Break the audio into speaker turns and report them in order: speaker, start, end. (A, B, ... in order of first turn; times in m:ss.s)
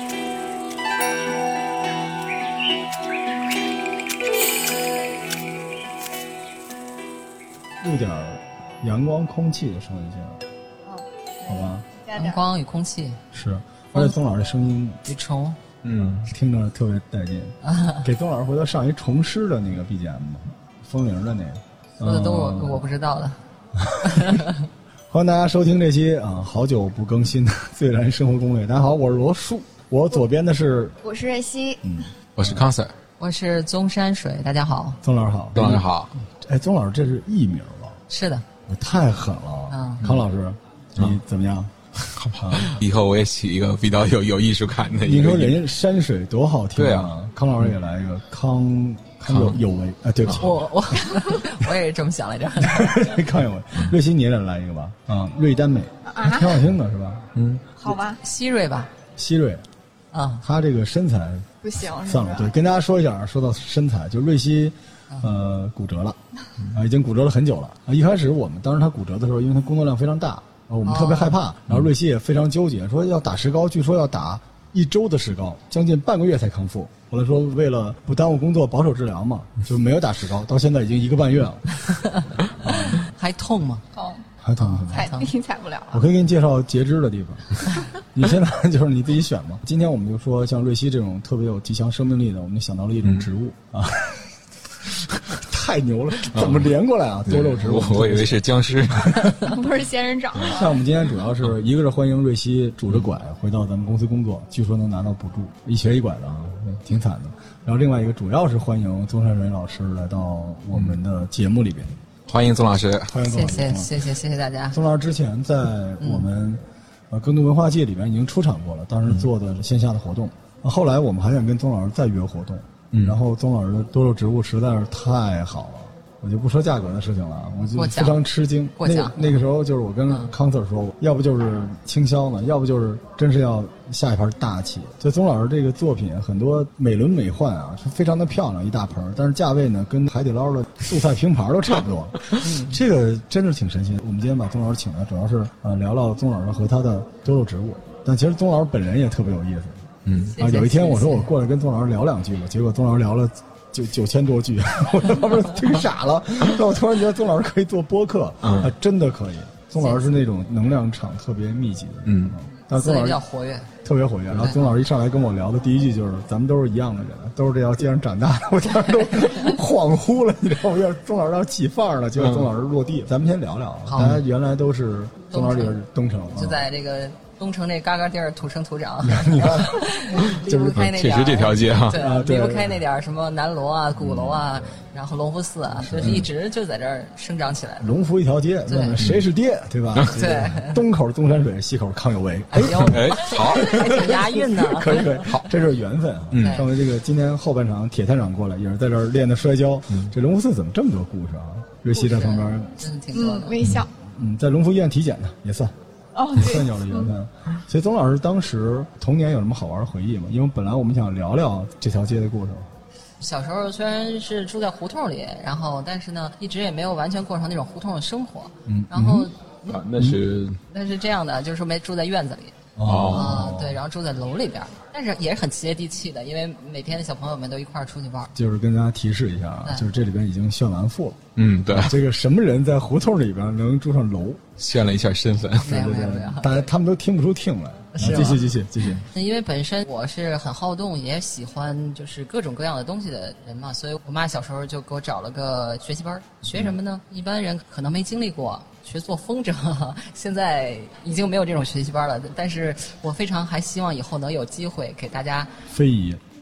0:07.8-0:10.4 A
0:10.8-0:12.4 B
0:11.4-0:11.8 A
0:12.2-0:13.2 C
0:13.3-0:15.0 A
0:15.0-0:15.6 C
0:15.8-0:16.3 D
0:16.3-0:22.8 A
0:17.6-0:18.0 C
0:22.0-0:23.4 C
0:23.7-0:24.5 A
0:24.0-0:24.7 C
0:25.1-0:31.0 A
0:31.0-0:32.1 B
0:31.8-0:32.6 A
0:32.4-0:32.9 D
0:33.2-0:35.0 C
0:35.0-0:38.0 A
0:35.5-0:36.1 D
0:38.1-0:38.4 C
0:38.7-0:41.7 A
0:39.7-0:40.0 C
0:42.0-0:45.6 D
0:42.4-0:42.8 A
0:45.0-0:50.6 A
0:46.8-0:47.1 D
0:49.3-0:49.6 D
0:50.4-0:53.1 C
0:52.6-0:57.3 A
0:56.0-0:56.6 B
0:57.3-0:57.6 D
0:57.8-0:58.2 B
0:58.2-0:58.9 C
0:59.2-0:59.6 A
1:00.1-1:00.4 C
1:00.4-1:01.5 A
1:01.6-1:02.5 B
1:02.0-1:06.2 A
1:06.7-1:21.8 A
1:10.8-1:11.4 C
1:21.9-1:23.8 C
1:22.6-1:23.0 A
1:23.9-1:24.2 B
1:24.4-1:25.1 A
1:24.6-1:25.3 C
1:24.8-1:26.0 B
1:25.9-1:34.3 A
1:34.9-1:39.4 A
1:36.3-1:36.7 D
1:37.2-1:39.4 D
1:39.4-1:40.8 B
1:40.4-1:52.0 A
1:52.3-1:53.1 D
1:53.1-1:53.9 A
1:53.2-1:54.8 C
1:54.7-2:43.2 A
2:02.9-2:03.2 D
2:07.8-2:08.2 C
2:08.8-2:09.4 C
2:22.4-2:22.8 C
2:30.0-2:30.4 D
2:30.3-2:31.3 C
2:38.4-2:38.7 D
2:39.8-2:40.0 C
2:42.0-2:42.4 D
2:42.7-2:43.7 C
2:43.8-2:56.6 A
2:44.4-2:44.7 C
2:52.2-2:52.5 D
2:53.8-2:54.1 C
2:55.3-2:55.8 C
2:56.3-3:07.9 C
2:59.0-3:00.9 A
3:00.7-3:02.0 D
3:01.9-3:02.8 A
3:04.0-3:04.7 A
3:05.8-3:06.3 A
3:05.9-3:06.2 D
3:07.8-3:22.8 A
3:08.7-3:09.0 C
3:09.0-3:09.2 D
3:10.1-3:10.8 C
3:12.5-3:15.2 C
3:12.6-3:14.0 D
3:15.1-3:15.5 D
3:16.3-3:16.6 D
3:16.4-3:16.6 C
3:21.9-3:23.6 C
3:23.1-3:23.9 B
3:23.8-3:25.7 A
3:26.1-3:27.1 B
3:26.3-3:32.7 A
3:33.2-3:39.7 C
3:38.6-3:39.3 A
3:39.7-3:40.6 D
3:40.7-3:48.3 C
3:42.8-3:43.8 A
3:42.8-3:43.4 D
3:48.3-3:54.5 A
3:51.4-3:51.9 D
3:54.6-3:55.8 D
3:55.6-3:59.0 A
3:55.6-3:56.7 C
3:57.9-3:58.5 C
3:58.0-3:58.4 D
3:59.0-4:15.6 C
4:15.7-4:16.2 A